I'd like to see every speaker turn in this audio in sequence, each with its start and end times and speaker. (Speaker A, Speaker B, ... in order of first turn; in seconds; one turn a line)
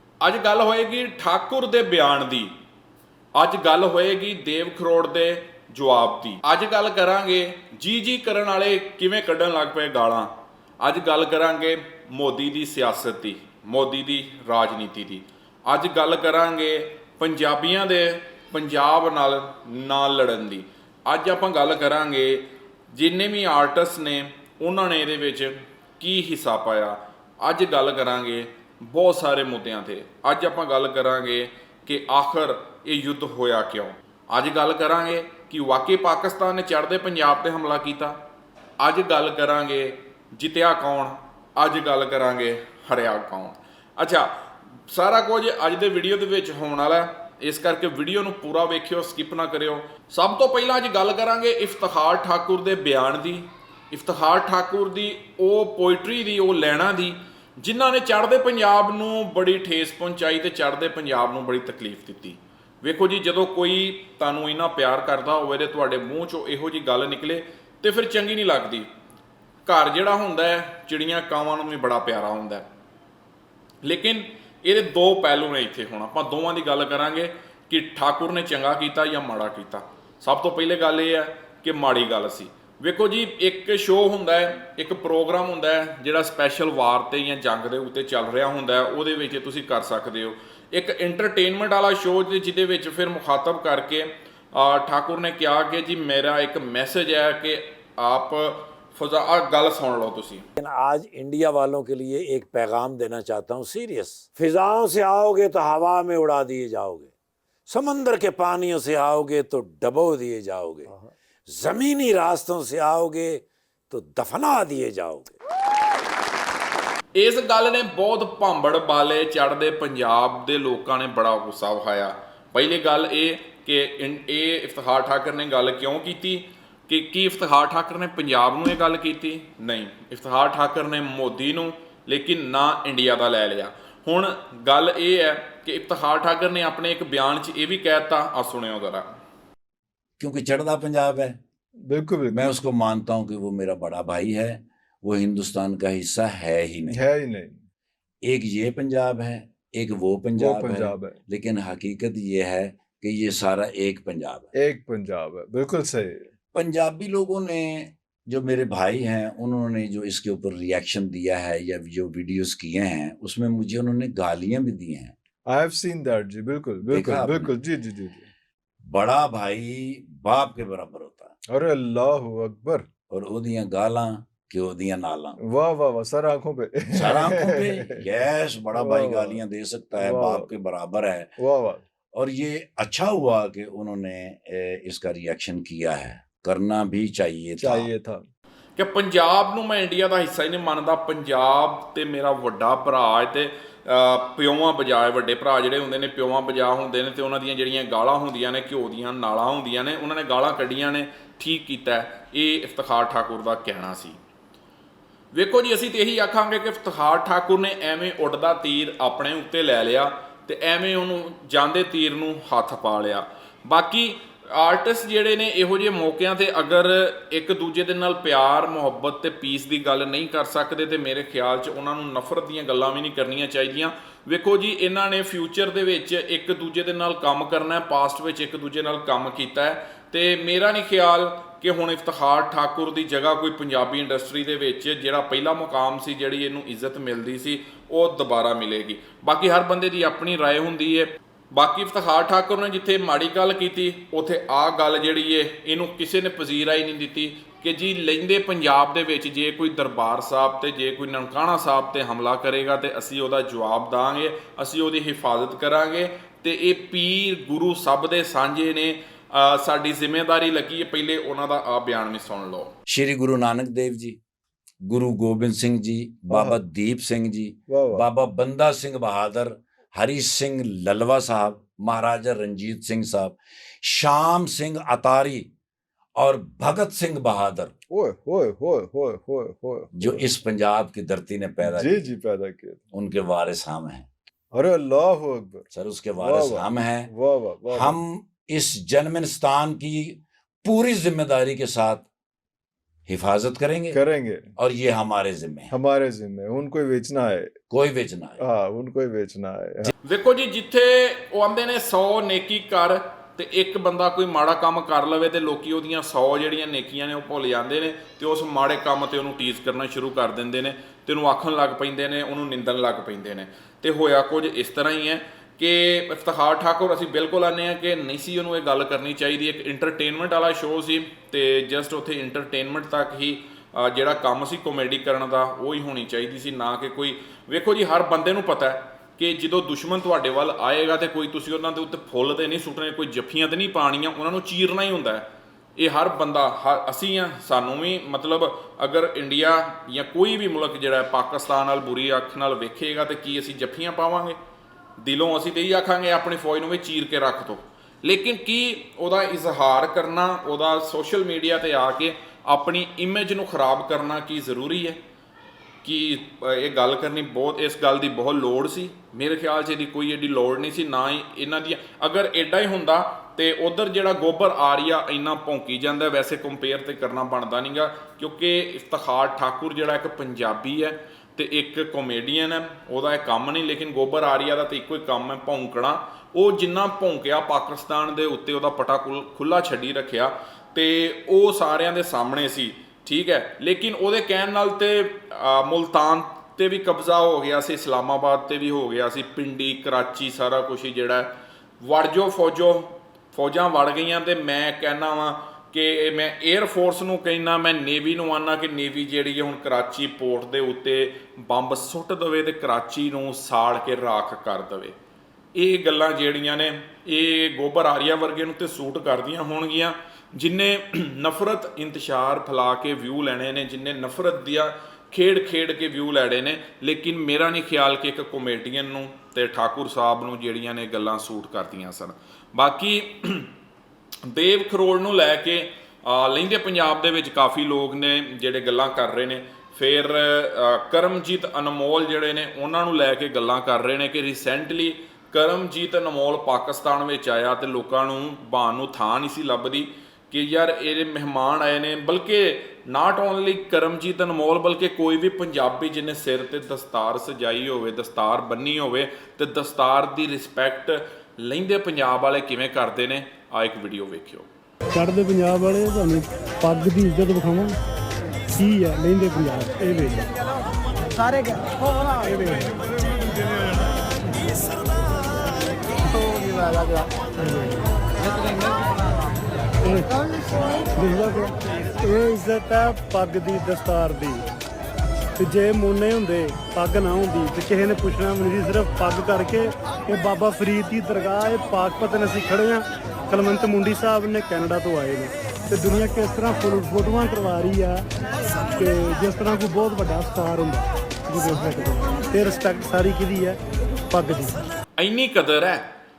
Speaker A: 0.2-2.5
Speaker A: 3.4-38.2
Speaker A: 38.8-44.3
Speaker A: 44.9-68.9
Speaker A: 69.7-72.7
Speaker A: 73.8-100.5
Speaker B: 100.6-107.1
Speaker B: 107.7-110.9
Speaker B: 111.5-115.4
Speaker A: 117.2-139.2
Speaker B: 140.2-141.4
Speaker C: 141.9-142.5
Speaker B: 142.3-147.0
Speaker C: 146.9-147.7
Speaker B: 148.2-154.5
Speaker C: 150.4-151.2
Speaker C: 154.6-156.3
Speaker B: 156.5-165.1
Speaker C: 165.5-168.3
Speaker B: 166.9-167.5
Speaker B: 168.8-171.3
Speaker C: 171.5-172.9
Speaker B: 173.1-175.4
Speaker C: 175.4-177.9
Speaker B: 176.9-181.3
Speaker C: 178.7-179.4
Speaker C: 180.0-180.5
Speaker C: 181.4-181.8
Speaker B: 182.1-187.9
Speaker C: 187.6-188.2
Speaker A: 188.8-204.2
Speaker A: 205.3-262.7
Speaker B: 262.9-264.2
Speaker B: 264.9-275.5
Speaker C: 266.3-266.6
Speaker C: 267.7-268.1
Speaker B: 276.2-277.7
Speaker C: 277.9-280.2
Speaker B: 279.9-282.1
Speaker C: 281.6-282.9
Speaker B: 282.9-284.1
Speaker C: 284.5-285.7
Speaker B: 285.7-287.1
Speaker C: 286.2-287.9
Speaker B: 287.7-292.1
Speaker B: 293.1-294.0
Speaker C: 293.9-294.5
Speaker B: 294.6-295.7
Speaker C: 295.7-297.6
Speaker B: 297.7-298.4
Speaker C: 298.4-299.9
Speaker A: 300.1-335.3
Speaker A: 335.8-344.4
Speaker A: 345.0-355.0
Speaker A: 355.8-404.9
Speaker A: 405.6-423.5
Speaker A: 424.2-454.5
Speaker D: 454.9-457.8
Speaker D: 458.6-460.3
Speaker D: 462.1-463.8
Speaker D: 464.4-465.4
Speaker D: 466.0-467.9
Speaker D: 469.8-470.2
Speaker D: 471.0-474.4
Speaker D: 475.4-488.0
Speaker D: 488.8-493.6
Speaker D: 494.1-494.6
Speaker A: 495.0-495.9